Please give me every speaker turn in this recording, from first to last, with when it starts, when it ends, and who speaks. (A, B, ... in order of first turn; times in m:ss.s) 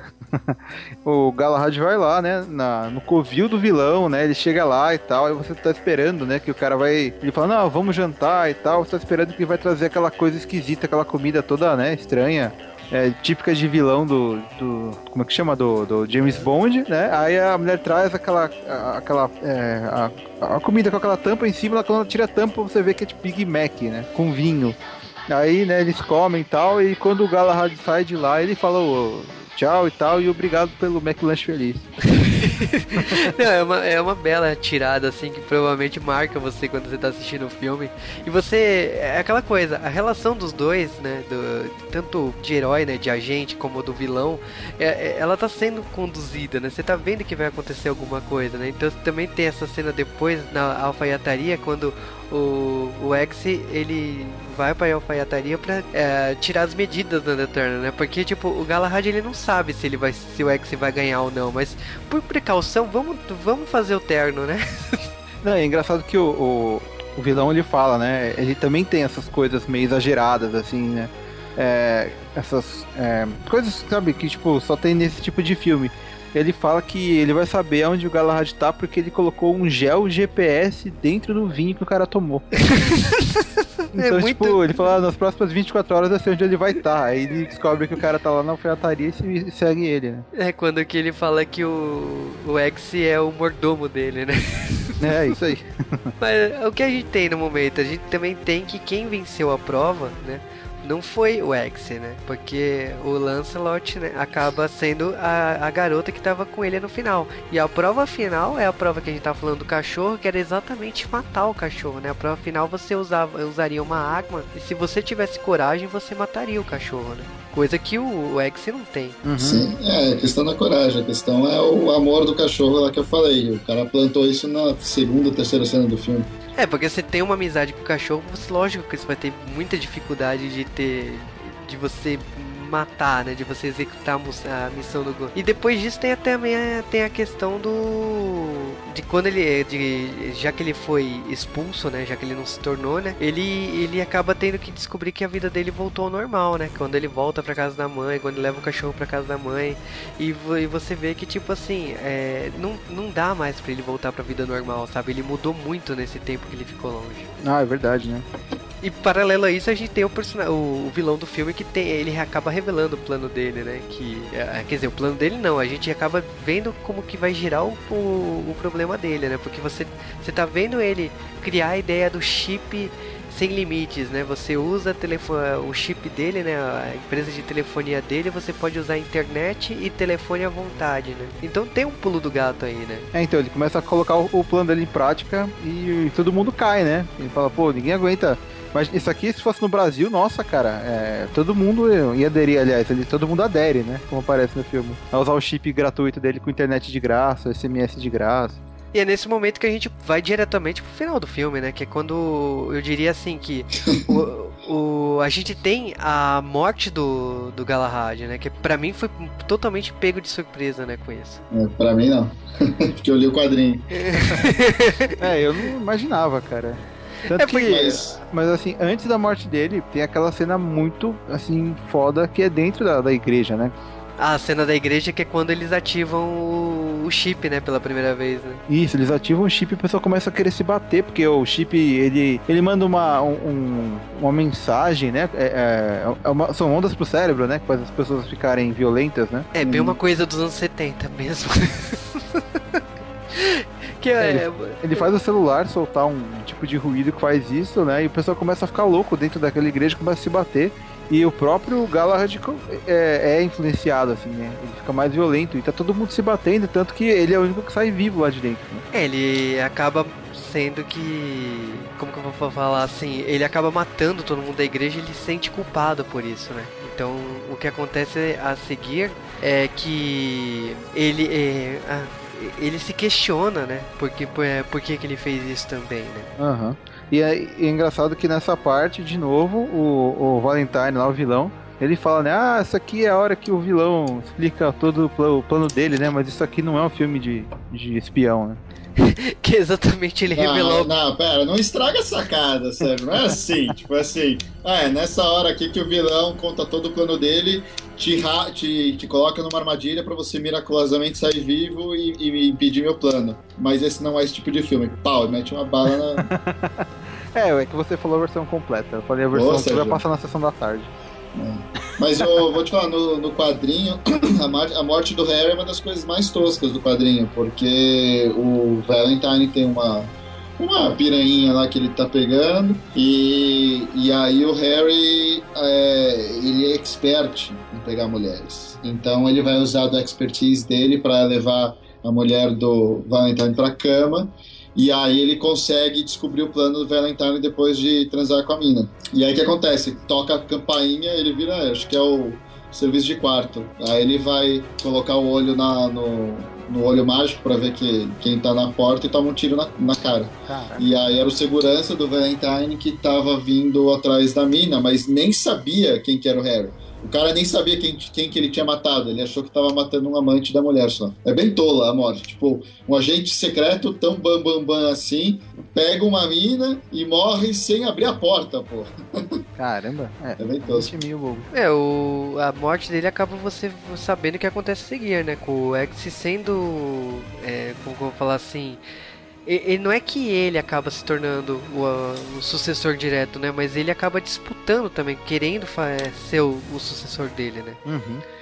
0:00.3-0:24.8 A
0:25.3-0:31.9 A
0:32.0-1:05.1 B
1:05.4-1:22.7 A
1:22.6-1:24.9 B
1:23.9-1:30.2 A
1:30.3-1:35.1 B
1:35.0-1:36.1 A
1:36.2-1:59.2 B
1:59.2-1:59.6 A
1:59.4-2:06.3 C
2:06.6-2:37.3 B
2:37.4-2:38.2 A
2:38.8-3:03.1 B
3:03.1-3:18.6 A
3:18.9-3:31.4 B
3:31.5-3:34.1 C
3:33.9-3:35.2 B
3:35.2-3:43.7 A
3:37.3-3:37.8 B
3:37.6-3:38.2 C
3:44.2-3:48.6 B
3:48.7-3:59.5 A
3:59.5-4:02.8 B
3:59.5-4:00.0 C
4:03.3-4:05.1 B
4:04.2-4:18.8 A
4:18.9-4:36.3 B
4:36.4-4:48.6 A
4:49.0-4:50.9 B
4:50.3-5:06.3 C
5:06.2-5:06.8 A
5:07.3-5:10.9 A
5:09.3-5:10.0 C
5:11.3-6:09.4 C
5:50.5-5:50.8 A
6:09.6-6:11.5 A
6:10.4-6:10.9 C
6:11.5-6:18.8 B
6:19.4-6:27.8 B
6:27.8-6:28.2 A